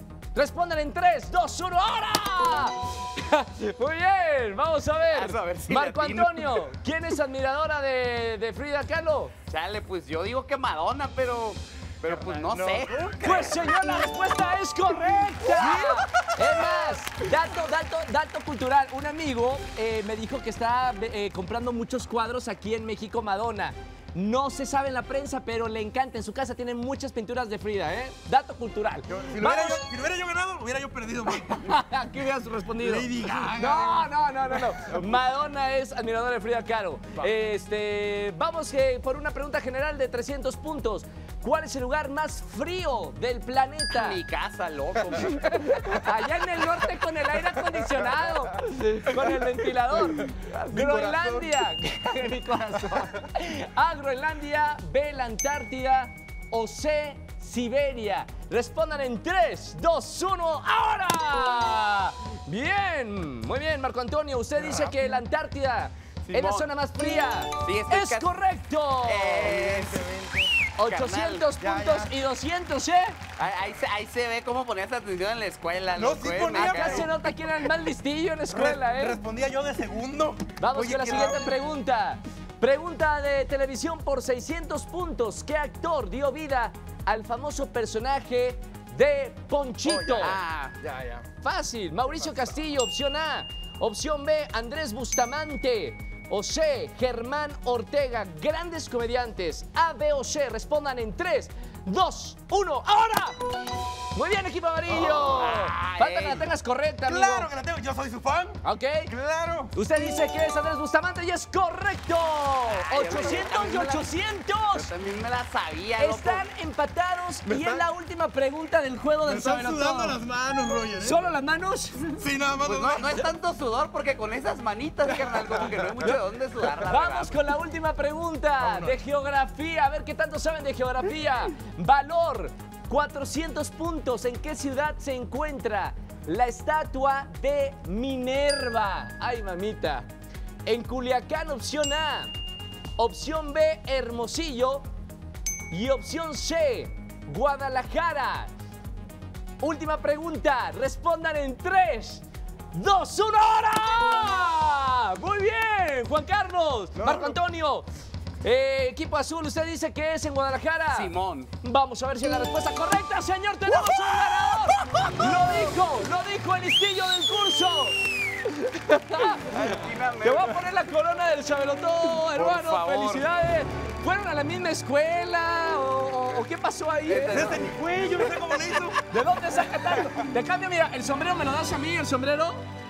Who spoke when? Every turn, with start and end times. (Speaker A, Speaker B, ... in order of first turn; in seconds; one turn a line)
Speaker A: 0.3-9.3
Speaker B: 5.1-6.7
Speaker B: 9.5-13.8
Speaker C: 12.3-13.2
Speaker A: 13.2-29.9
Speaker C: 15.6-16.0
Speaker C: 29.1-31.7
Speaker A: 31.5-44.2
Speaker C: 32.8-34.1
Speaker B: 43.9-46.1
Speaker A: 45.5-69.5
Speaker C: 50.7-51.5
Speaker C: 64.6-64.9
Speaker B: 66.3-66.7
Speaker B: 67.6-68.3
Speaker B: 69.0-70.0
Speaker C: 69.4-70.5
Speaker A: 70.8-73.2
Speaker B: 70.9-71.5
Speaker C: 71.6-72.1
Speaker B: 73.4-77.1
Speaker C: 76.0-77.1
Speaker A: 76.5-79.2
Speaker C: 78.5-81.6
Speaker A: 80.6-90.4
Speaker C: 89.8-91.2
Speaker B: 90.2-90.8
Speaker A: 91.4-103.4
Speaker A: 104.1-107.5
Speaker B: 104.9-106.5
Speaker C: 107.1-109.7
Speaker A: 108.6-109.1
Speaker A: 109.7-114.9
Speaker B: 112.7-114.1
Speaker B: 114.7-116.5
Speaker A: 116.0-120.2
Speaker C: 117.5-117.8
Speaker C: 119.3-121.3
Speaker A: 121.0-122.2
Speaker C: 122.2-123.2
Speaker B: 122.6-127.4
Speaker A: 126.8-140.1
Speaker C: 128.6-129.0
Speaker A: 140.7-142.3
Speaker A: 143.0-144.8
Speaker A: 145.7-148.5
Speaker A: 149.6-157.9
Speaker C: 157.0-157.4
Speaker A: 158.4-169.6
Speaker B: 160.9-161.5
Speaker B: 169.3-170.6
Speaker A: 170.2-177.6
Speaker B: 172.3-173.3
Speaker B: 177.1-177.7
Speaker C: 177.3-179.0
Speaker A: 179.1-182.6